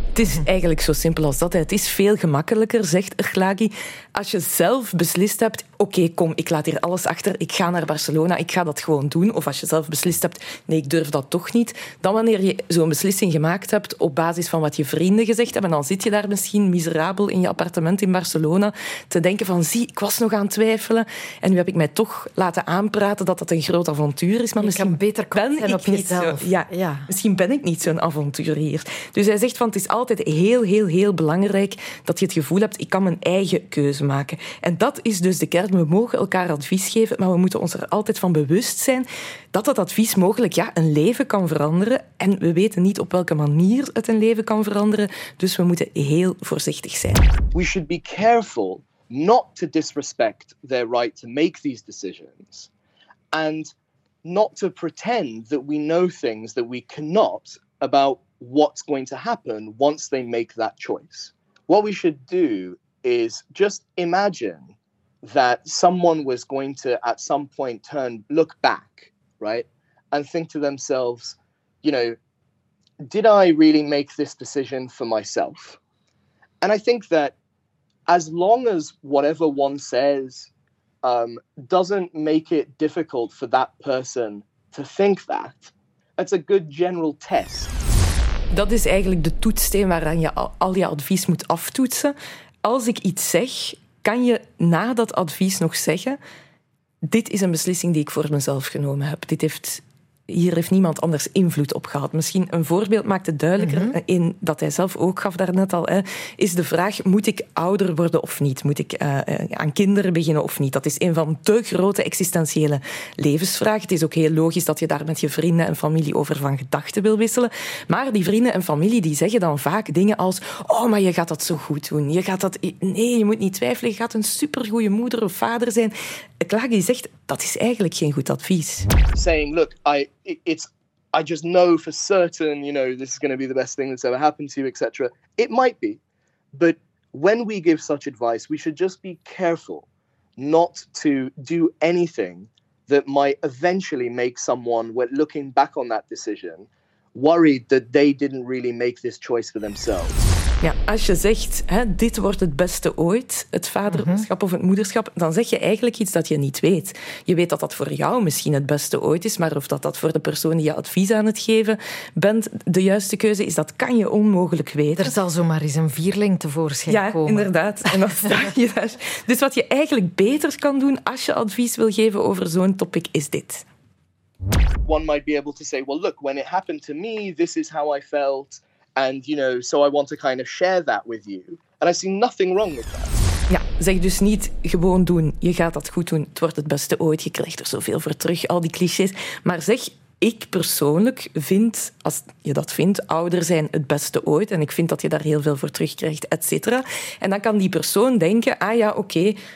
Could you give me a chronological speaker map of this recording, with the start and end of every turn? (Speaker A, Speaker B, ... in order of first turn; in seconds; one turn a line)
Speaker A: 0.1-47.3
Speaker B: 24.6-27.1
Speaker C: 47.5-52.7
Speaker C: 53.3-53.7
Speaker C: 54.2-64.7
Speaker C: 65.2-72.2
Speaker C: 73.0-75.8
Speaker C: 76.6-77.3
Speaker C: 78.1-80.5
Speaker C: 81.0-87.7
Speaker A: 88.5-96.2
Speaker A: 97.0-128.9
Speaker B: 103.6-104.0
Speaker C: 129.1-136.0
Speaker C: 136.5-150.3
Speaker A: 150.6-165.1
Speaker B: 153.9-154.3
Speaker B: 165.0-167.5
Speaker A: 166.9-173.6
Speaker B: 168.0-168.4
Speaker C: 174.8-183.1
Speaker A: 183.5-199.4